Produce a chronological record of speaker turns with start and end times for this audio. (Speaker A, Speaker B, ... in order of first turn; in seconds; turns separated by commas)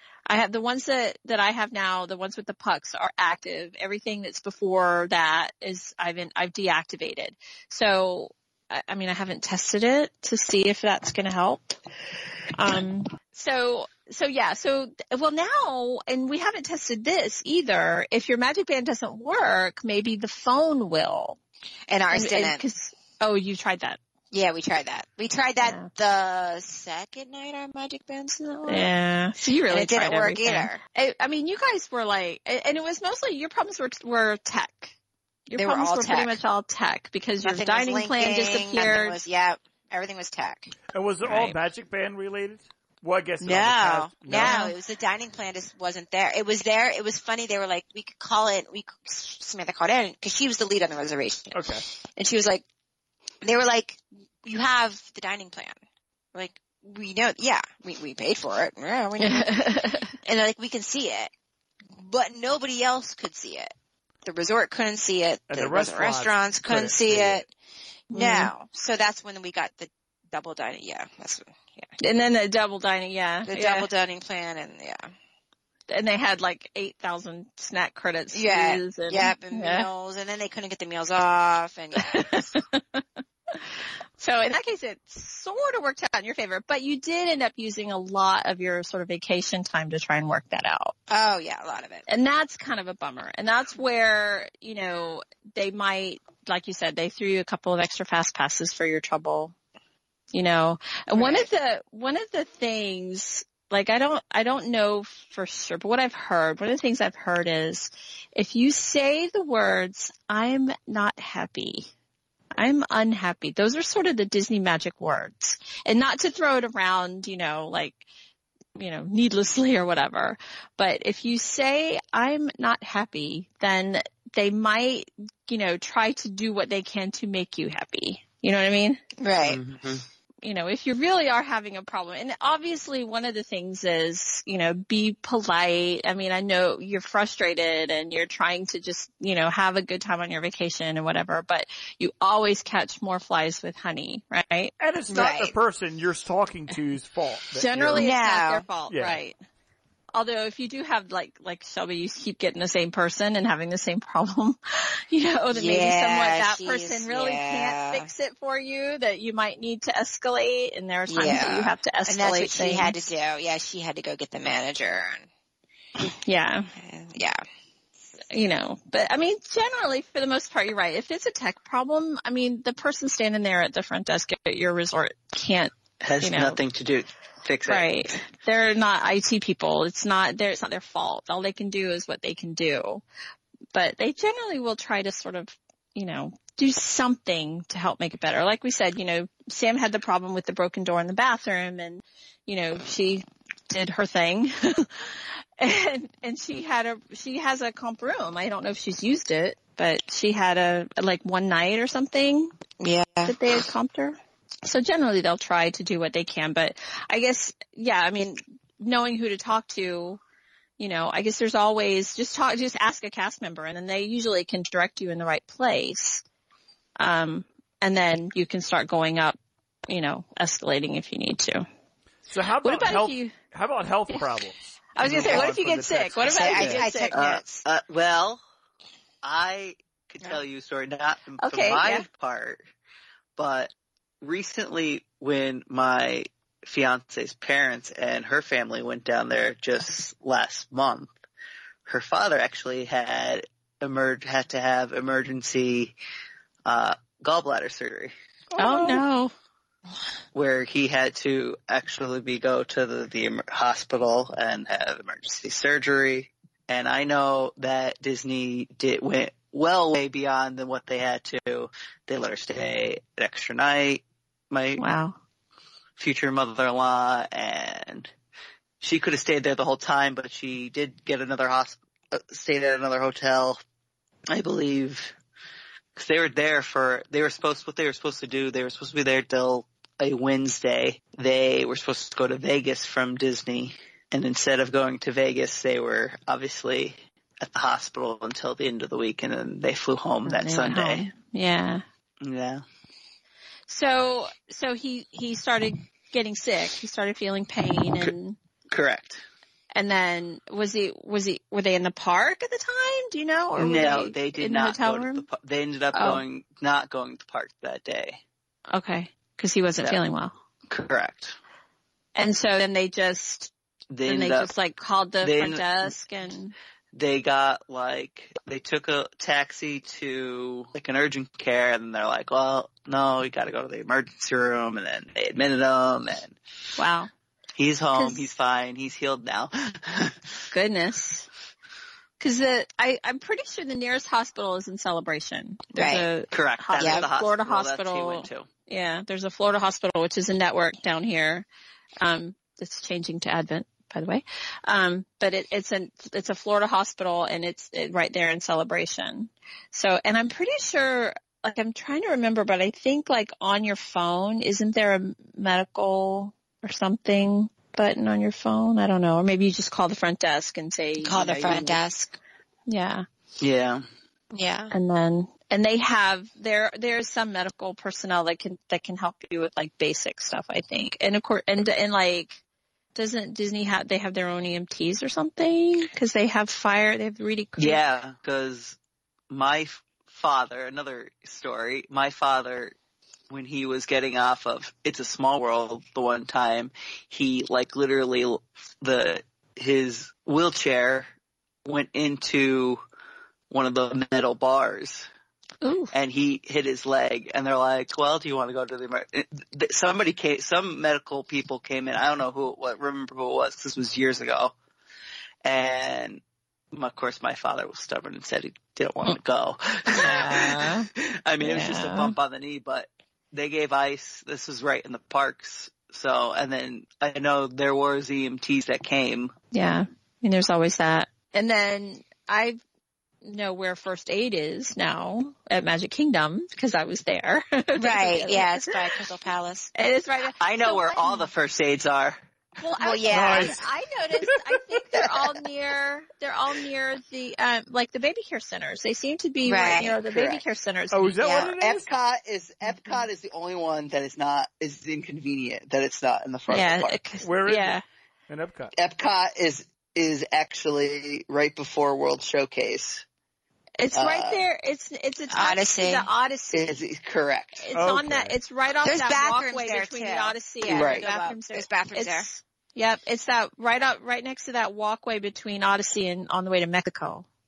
Speaker A: 0.3-11.8, Speaker A: 12.5-21.4, Speaker B: 21.9-22.6, Speaker A: 22.1-24.0, Speaker B: 24.3-28.9, Speaker A: 25.6-25.9, Speaker A: 28.7-34.9, Speaker B: 29.7-30.8, Speaker A: 35.5-39.2, Speaker B: 35.5-36.4, Speaker B: 37.4-40.7, Speaker C: 40.9-44.6, Speaker A: 41.2-41.6, Speaker B: 43.4-52.6, Speaker A: 44.4-44.7, Speaker C: 51.5-51.9, Speaker B: 53.4-55.8, Speaker B: 56.3-61.3, Speaker A: 59.2-60.1, Speaker B: 62.0-63.7, Speaker B: 64.2-67.5, Speaker C: 65.5-67.4, Speaker B: 68.1-71.9, Speaker A: 68.1-68.5, Speaker A: 72.0-73.9, Speaker B: 73.5-75.1, Speaker A: 75.9-79.9, Speaker B: 78.3-82.5, Speaker A: 82.0-90.9, Speaker B: 91.1-92.1, Speaker A: 92.1-99.5, Speaker A: 100.3-111.9, Speaker B: 101.2-101.5, Speaker A: 112.5-118.0, Speaker A: 118.8-129.0, Speaker B: 129.2-129.6, Speaker D: 129.4-130.1, Speaker A: 130.4-144.7, Speaker C: 144.8-148.1, Speaker B: 145.1-145.6, Speaker A: 147.6-149.4, Speaker B: 147.9-148.7, Speaker C: 148.9-149.2, Speaker A: 150.1-162.9, Speaker B: 155.5-158.1, Speaker B: 161.1-165.3, Speaker A: 166.2-166.7, Speaker B: 166.7-167.4, Speaker A: 168.3-176.6, Speaker D: 176.0-178.0, Speaker A: 177.7-183.0, Speaker A: 183.7-202.5, Speaker B: 202.8-203.4, Speaker A: 203.3-210.2, Speaker A: 210.8-216.2, Speaker A: 217.0-219.4, Speaker A: 219.9-221.7, Speaker C: 222.3-226.8, Speaker A: 222.6-223.3, Speaker A: 224.9-227.2, Speaker B: 226.2-227.7, Speaker D: 227.1-228.4, Speaker D: 229.2-232.6, Speaker A: 231.4-232.1, Speaker D: 233.4-241.1, Speaker D: 241.9-245.9, Speaker D: 246.7-248.1, Speaker C: 248.5-249.1, Speaker A: 248.6-249.3, Speaker D: 250.3-264.8, Speaker A: 264.8-265.2, Speaker D: 266.0-268.1, Speaker D: 268.8-273.6, Speaker D: 274.3-275.1, Speaker D: 276.0-291.1, Speaker A: 290.3-291.8, Speaker D: 292.2-292.6, Speaker A: 293.7-298.4, Speaker D: 298.7-299.2, Speaker A: 299.8-305.3, Speaker D: 303.6-308.2, Speaker A: 305.9-306.2, Speaker A: 308.7-310.3, Speaker D: 310.7-311.4, Speaker A: 312.2-313.5, Speaker D: 313.9-314.5, Speaker A: 314.1-316.5, Speaker D: 315.2-315.9, Speaker D: 316.9-326.4, Speaker A: 326.8-327.1, Speaker D: 327.6-330.2, Speaker A: 327.9-328.3, Speaker A: 330.5-331.3, Speaker A: 332.2-341.5, Speaker B: 335.8-336.1, Speaker D: 336.3-338.5, Speaker B: 336.8-337.1, Speaker A: 342.0-361.8, Speaker B: 361.0-362.2, Speaker A: 362.7-363.1, Speaker D: 363.4-363.9, Speaker B: 364.3-364.7, Speaker A: 364.7-372.4, Speaker A: 372.9-377.8, Speaker D: 377.6-378.8, Speaker D: 379.3-382.8, Speaker D: 383.3-391.1, Speaker D: 391.6-392.8, Speaker D: 393.5-395.1, Speaker A: 395.6-395.9, Speaker D: 395.9-404.6, Speaker D: 405.4-419.3, Speaker A: 409.9-410.9, Speaker A: 411.4-412.1, Speaker A: 419.5-422.6, Speaker A: 423.2-428.8, Speaker B: 427.8-429.7, Speaker A: 429.8-431.3, Speaker D: 430.4-432.2, Speaker A: 432.6-441.2, Speaker B: 432.8-433.6, Speaker C: 433.1-433.6, Speaker B: 439.4-440.0, Speaker D: 440.0-440.4, Speaker C: 440.9-441.9, Speaker B: 441.2-441.5, Speaker D: 441.5-447.0, Speaker A: 446.5-447.8, Speaker C: 447.2-447.8, Speaker C: 448.3-448.7, Speaker D: 448.8-453.0, Speaker A: 453.8-456.8, Speaker D: 453.9-454.4, Speaker B: 455.3-456.1, Speaker D: 456.5-457.6, Speaker A: 457.6-467.3, Speaker C: 457.7-458.4, Speaker B: 458.8-462.3, Speaker D: 460.7-461.1